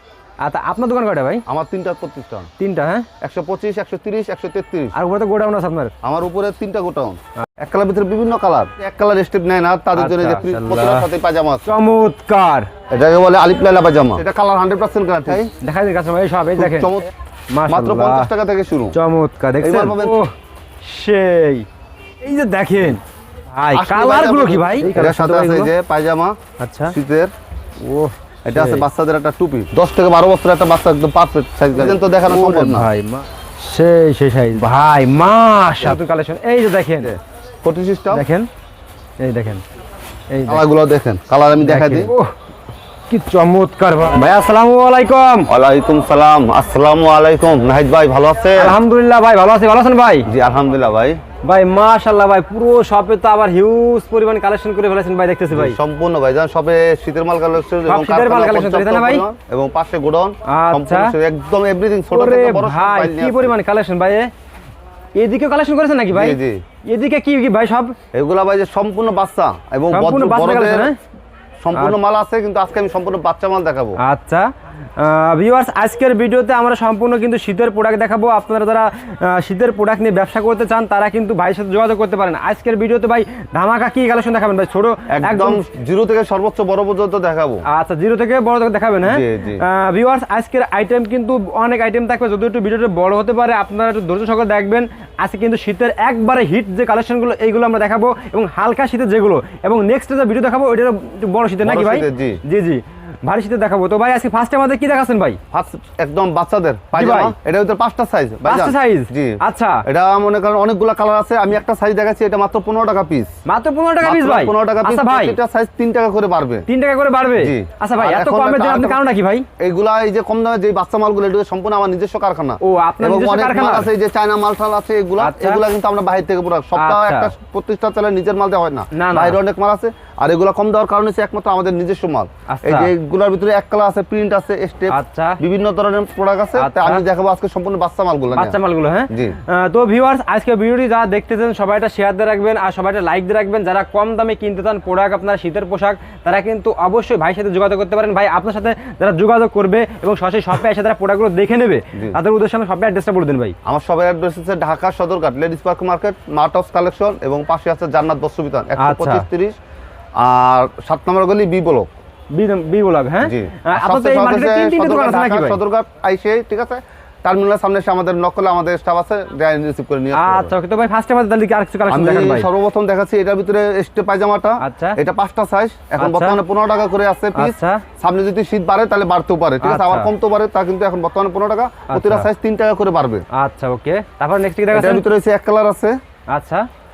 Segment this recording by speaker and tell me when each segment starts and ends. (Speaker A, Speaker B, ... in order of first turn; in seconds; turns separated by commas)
Speaker A: 0.4-1.4, Speaker B: 1.4-2.5, Speaker A: 2.6-3.1, Speaker B: 3.2-5.0, Speaker A: 4.9-5.9, Speaker B: 6.0-11.7, Speaker A: 9.9-11.1, Speaker A: 11.6-12.7, Speaker B: 12.9-15.5, Speaker A: 15.3-16.9, Speaker B: 16.6-17.1, Speaker A: 17.5-18.3, Speaker B: 17.7-18.9, Speaker A: 18.9-21.6, Speaker B: 19.6-20.2, Speaker A: 22.2-25.7, Speaker B: 23.7-27.3, Speaker A: 26.6-26.9, Speaker A: 27.8-28.9, Speaker B: 28.4-32.9, Speaker A: 31.8-37.1, Speaker B: 37.0-38.3, Speaker A: 38.1-38.5, Speaker A: 39.2-39.6, Speaker A: 40.3-40.6, Speaker B: 40.5-42.1, Speaker A: 41.6-42.3, Speaker A: 43.1-45.5, Speaker B: 45.5-48.8, Speaker A: 48.5-50.3, Speaker B: 50.2-51.2, Speaker A: 51.4-55.8, Speaker B: 55.5-63.5, Speaker A: 57.9-59.2, Speaker A: 60.5-61.1, Speaker A: 62.1-64.3, Speaker A: 65.1-67.9, Speaker B: 66.1-66.6, Speaker B: 68.1-70.9, Speaker A: 69.9-71.0, Speaker B: 71.6-74.0, Speaker A: 74.0-85.6, Speaker B: 85.1-87.6, Speaker A: 87.7-105.4, Speaker B: 89.0-89.6, Speaker B: 101.6-102.4, Speaker B: 105.5-113.3, Speaker A: 106.9-107.3, Speaker A: 108.4-109.8, Speaker A: 113.5-115.4, Speaker B: 114.0-116.7, Speaker A: 116.7-119.5, Speaker B: 117.4-119.0, Speaker B: 119.6-138.6, Speaker A: 122.6-123.9, Speaker A: 125.2-125.6, Speaker A: 126.7-127.3, Speaker A: 128.9-129.4, Speaker A: 132.5-132.9, Speaker A: 134.9-135.4, Speaker A: 136.6-137.0, Speaker A: 138.3-153.6, Speaker B: 139.1-139.4, Speaker B: 153.6-159.6, Speaker A: 158.8-159.2, Speaker B: 160.2-161.9, Speaker A: 162.3-165.6, Speaker B: 163.2-170.5, Speaker A: 170.1-172.5, Speaker B: 171.9-183.2, Speaker A: 174.6-175.0, Speaker A: 176.0-176.4, Speaker A: 177.3-177.8, Speaker A: 179.6-180.1, Speaker A: 181.9-182.3, Speaker A: 183.3-185.1, Speaker B: 184.7-186.0, Speaker A: 186.3-186.7